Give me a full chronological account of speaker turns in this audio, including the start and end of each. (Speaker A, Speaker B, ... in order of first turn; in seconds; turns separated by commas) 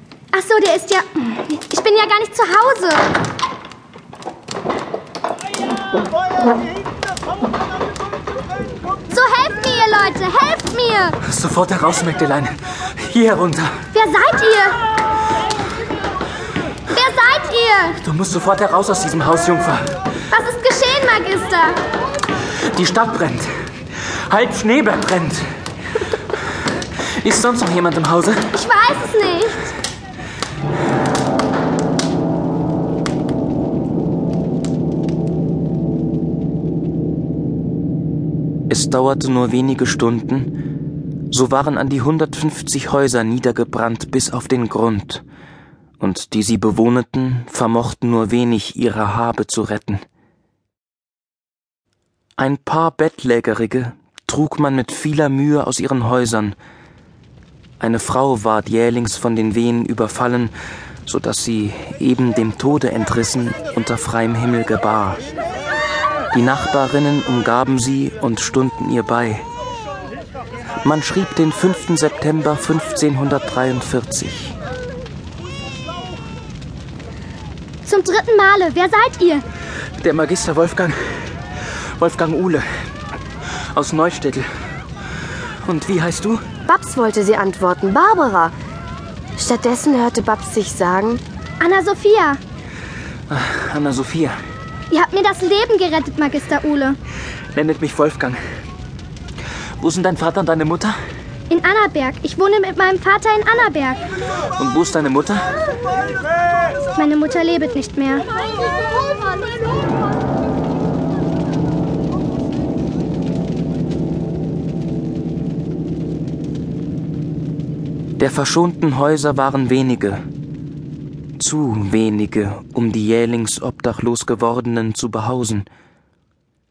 Speaker A: 0.3-3.1, Speaker A: 9.1-11.2, Speaker B: 11.2-13.7, Speaker A: 13.9-14.8, Speaker A: 16.9-18.0, Speaker B: 18.0-19.8, Speaker A: 20.3-21.8, Speaker B: 22.7-23.5, Speaker B: 24.3-25.4, Speaker B: 27.2-28.4, Speaker A: 28.5-29.7, Speaker B: 38.7-40.5, Speaker B: 41.3-45.2, Speaker B: 46.0-50.0, Speaker B: 52.4-56.6, Speaker B: 57.8-60.5, Speaker B: 61.1-65.2, Speaker B: 66.3-69.5, Speaker B: 70.8-74.5, Speaker A: 77.8-79.5, Speaker B: 80.0-81.0, Speaker B: 82.0-82.6, Speaker B: 83.7-84.5, Speaker B: 85.7-86.4, Speaker C: 86.7-88.5, Speaker C: 89.4-91.2, Speaker A: 91.6-92.4, Speaker B: 93.3-94.3, Speaker A: 94.9-97.0, Speaker B: 97.5-98.4, Speaker B: 99.8-101.0, Speaker A: 101.5-104.0, Speaker B: 104.6-105.5, Speaker A: 107.0-108.3, Speaker B: 118.2-120.2, Speaker B: 121.4-125.7